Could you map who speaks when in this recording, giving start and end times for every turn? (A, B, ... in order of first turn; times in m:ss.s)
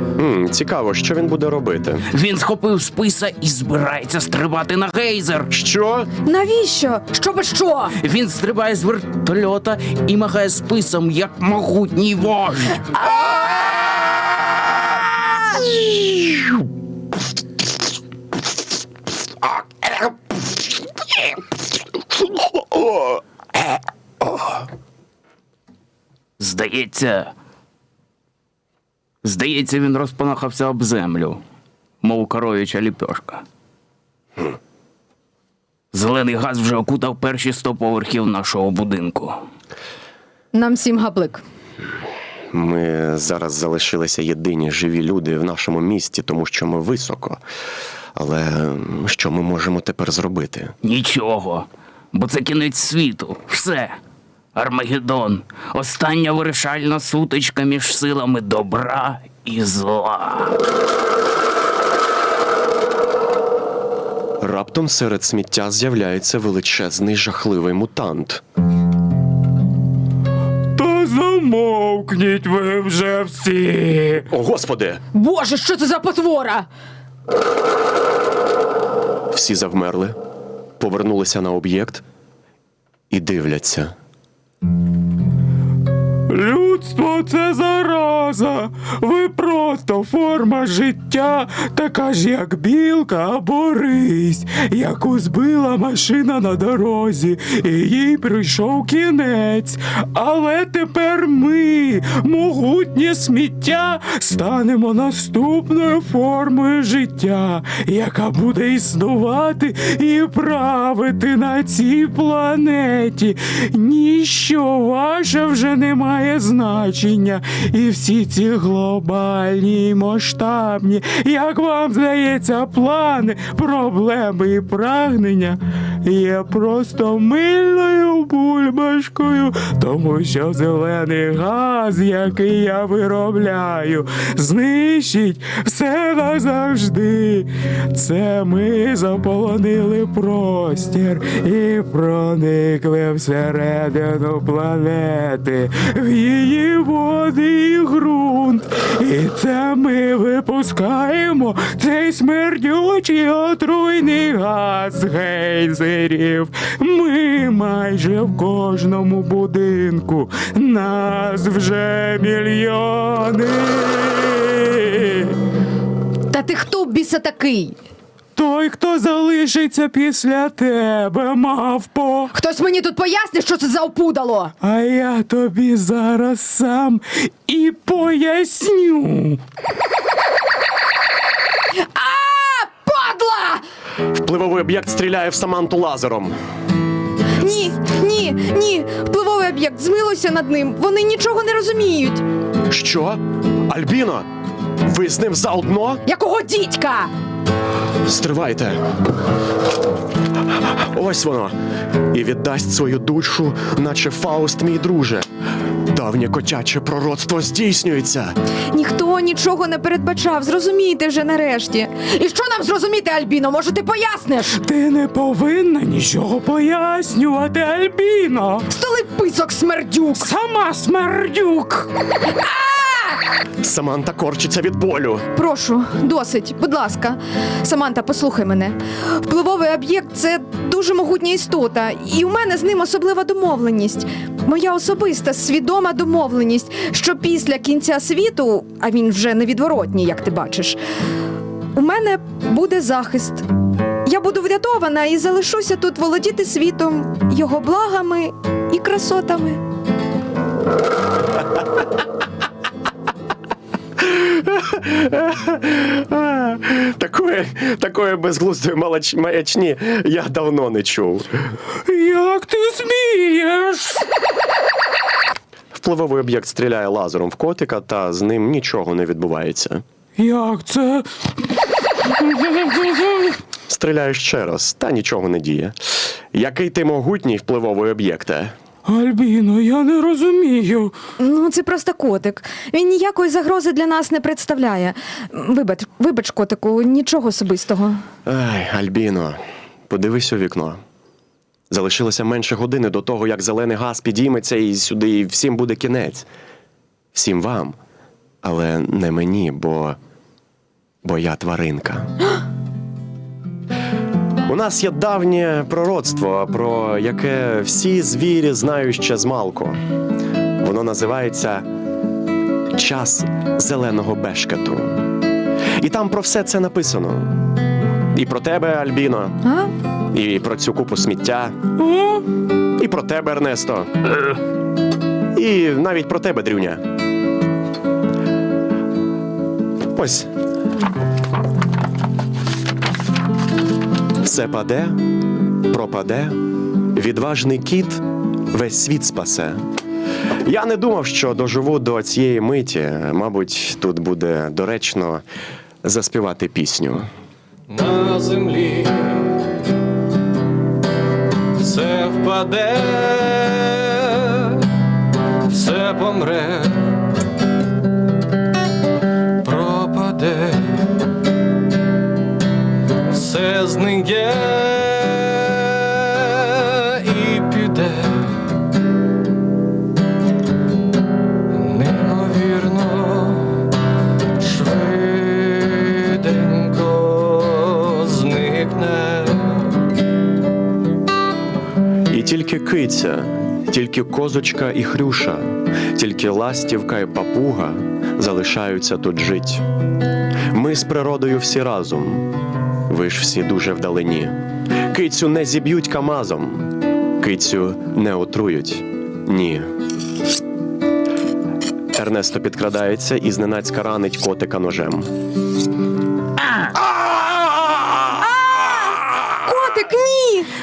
0:00.2-0:02.0 A
0:02.1-0:05.5 B
0:05.5-0:06.1 A
0:06.2-0:08.0 C
0:08.0-0:13.0 B
0:15.8-0:16.4 A
0:26.4-0:27.3 B
0:29.2-0:31.4 B
0:32.0-0:33.4 B
0:35.9-0:39.4 B
0:40.5-0:41.4 C
0:42.5-0:47.4 A
0:48.2-0:50.7 A
0:50.8-0:54.0 B
0:54.5-1:00.6 B
1:04.4-1:08.4 A
1:10.8-1:14.2 D
1:14.3-1:15.0 A
1:15.1-1:16.7 C
1:19.3-1:20.2 A
1:20.8-1:22.0 A
1:23.1-1:23.9 A
1:26.3-2:45.4 D
2:46.3-2:47.8 C
2:48.4-2:52.3 D
2:52.3-2:54.5 C
2:54.6-2:59.4 D
3:01.7-3:03.6 C
3:04.1-3:06.4 A
3:07.4-3:12.2 C
3:12.7-3:14.2 A
3:14.8-3:16.0 A
3:16.0-3:17.1 C
3:18.0-3:18.8 A
3:20.8-3:21.5 A
3:22.1-3:25.2 A
3:25.9-3:28.3 A
3:28.7-3:34.6 C
3:34.6-3:38.7 D
3:38.7-3:40.3 C
3:40.2-3:41.8 D
3:42.2-3:43.2 C
3:43.6-3:45.3 A
3:45.3-4:00.8 C
4:01.7-4:03.4 C
4:04.0-4:09.6 C
4:14.0-4:21.3 A
4:21.9-4:24.0 D
4:25.7-4:29.8 A
4:30.2-4:31.0 D
4:32.4-4:32.8 D
4:33.7-4:38.5 A
4:38.8-4:40.9 D
4:41.2-4:48.0 C
4:48.2-4:49.4 A
4:49.9-4:50.8 A
4:51.7-4:56.3 A
4:57.1-4:57.8 A
4:58.4-5:00.0 A
5:01.0-5:02.1 A
5:04.4-5:09.8 A
5:10.6-5:11.7 A
5:12.7-5:15.0 A
5:15.8-5:17.4 A
5:18.1-5:19.4 A
5:19.4-5:19.7 C
5:20.1-5:21.6 A
5:22.8-5:23.9 A
5:25.3-5:26.8 A
5:29.9-5:30.3 A
5:34.2-5:35.0 A
5:35.7-5:39.6 A
5:40.4-5:45.2 A
5:45.8-5:47.1 A
5:47.7-5:49.3 E
5:51.6-5:54.6 E
5:55.5-5:56.9 E
5:59.4-6:00.8 E
6:03.0-6:08.4 E
6:11.5-6:13.7 E
6:14.4-6:19.7 E
6:22.1-6:29.6 A
6:30.5-6:32.3 A
6:32.9-6:39.7 A
6:41.9-6:45.1 A
6:48.2-6:50.5 C